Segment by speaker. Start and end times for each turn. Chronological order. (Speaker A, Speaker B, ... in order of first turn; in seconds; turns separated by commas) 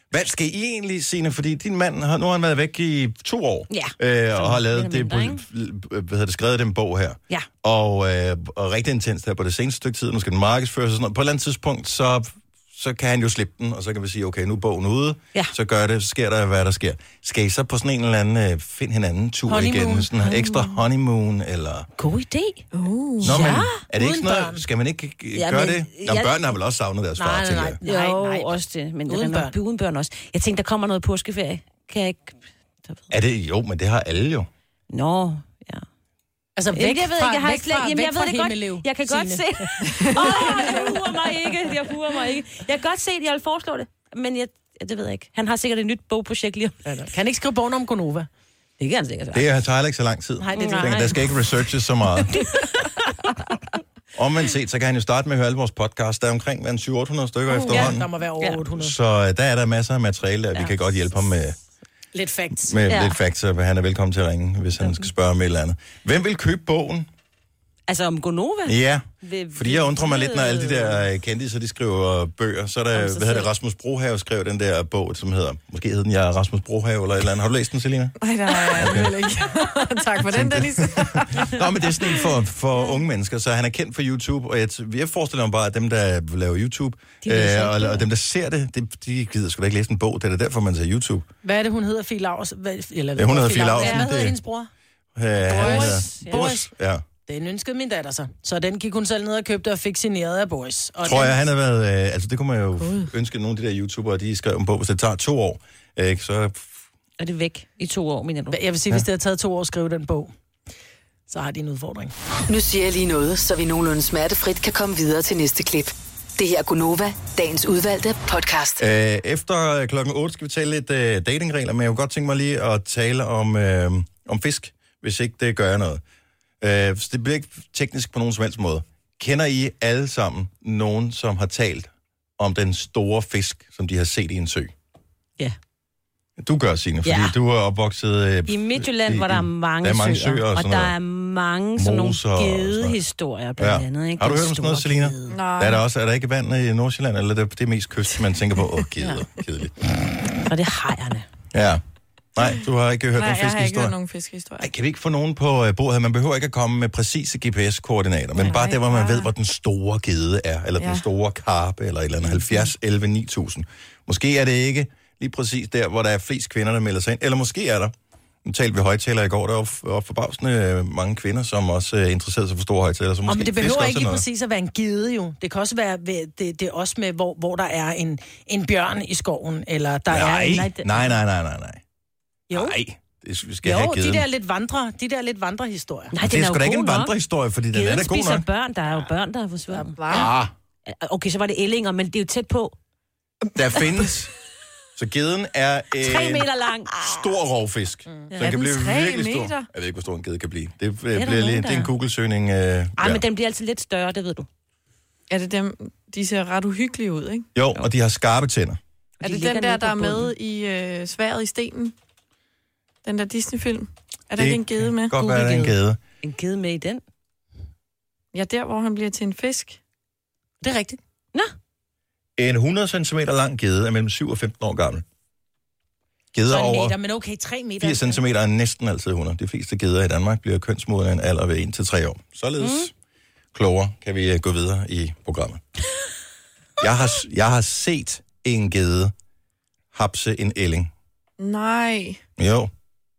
Speaker A: 0.1-21.9, Speaker B: 3.7-5.4, Speaker C: 19.5-20.1, Speaker B: 22.0-22.6, Speaker D: 22.7-23.6, Speaker A: 23.2-27.8, Speaker B: 23.3-23.6, Speaker C: 23.4-24.6, Speaker B: 25.3-26.4, Speaker C: 27.2-29.6, Speaker B: 27.8-33.1, Speaker A: 33.1-34.5, Speaker B: 34.9-35.8, Speaker C: 36.6-41.2, Speaker B: 36.7-46.8, Speaker C: 46.9-48.3, Speaker B: 48.8-49.5, Speaker A: 49.3-52.4, Speaker C: 50.4-51.2, Speaker B: 50.5-51.2, Speaker B: 52.3-52.9, Speaker A: 54.1-58.1, Speaker C: 57.5-58.9, Speaker B: 57.7-58.6, Speaker A: 58.7-61.5, Speaker C: 62.1-62.8, Speaker A: 62.6-67.1, Speaker B: 62.9-63.2, Speaker B: 67.9-71.0, Speaker A: 68.7-78.2, Speaker B: 72.9-73.5, Speaker D: 78.2-81.5, Speaker A: 78.7-79.2, Speaker A: 80.2-91.2, Speaker D: 82.0-82.3, Speaker B: 87.2-88.0, Speaker C: 91.4-94.7, Speaker A: 93.2-94.3, Speaker B: 93.8-94.0, Speaker A: 95.2-97.0, Speaker C: 95.5-96.7, Speaker B: 95.5-96.5, Speaker C: 97.2-101.4, Speaker A: 101.0-106.7, Speaker B: 107.2-108.6, Speaker C: 108.5-110.3, Speaker C: 111.3-112.1, Speaker E: 112.5-118.8, Speaker A: 118.8-126.0, Speaker A: 126.6-134.7, Speaker A: 136.4-140.9, Speaker B: 137.0-137.3, Speaker B: 138.5-145.4, Speaker A: 141.8-143.0, Speaker A: 143.6-149.7, Speaker D: 145.3-145.8, Speaker B: 150.4-151.3, Speaker A: 151.5-151.8, Speaker A: 152.3-153.9, Speaker D: 153.1-154.7, Speaker A: 154.6-167.9, Speaker D: 158.4-159.3, Speaker D: 160.8-161.0, Speaker A: 168.4-174.2, Speaker C: 173.3-180.7, Speaker A: 180.1-181.8, Speaker B: 180.5-181.0, Speaker A: 182.5-184.2, Speaker C: 183.6-186.1, Speaker B: 186.1-187.1, Speaker A: 186.2-188.4, Speaker B: 187.7-190.2, Speaker D: 190.0-190.3, Speaker A: 190.1-190.5, Speaker B: 190.9-192.7, Speaker A: 193.5-194.3, Speaker A: 194.9-203.2, Speaker B: 196.0-197.1, Speaker D: 198.4-199.7, Speaker B: 201.2-201.9, Speaker B: 203.0-204.5, Speaker D: 205.3-207.5, Speaker A: 207.5-208.8, Speaker B: 209.2-210.3, Speaker D: 209.2-211.9, Speaker D: 213.0-215.2, Speaker A: 214.4-216.0, Speaker B: 215.2-217.0, Speaker D: 218.3-219.8, Speaker C: 220.6-221.0, Speaker A: 222.4-225.0, Speaker A: 226.3-226.9, Speaker C: 226.5-228.2, Speaker A: 227.8-232.9, Speaker B: 232.6-232.9, Speaker A: 233.5-235.6, Speaker A: 236.8-239.1, Speaker A: 239.9-240.9, Speaker D: 241.4-242.2, Speaker A: 242.4-242.7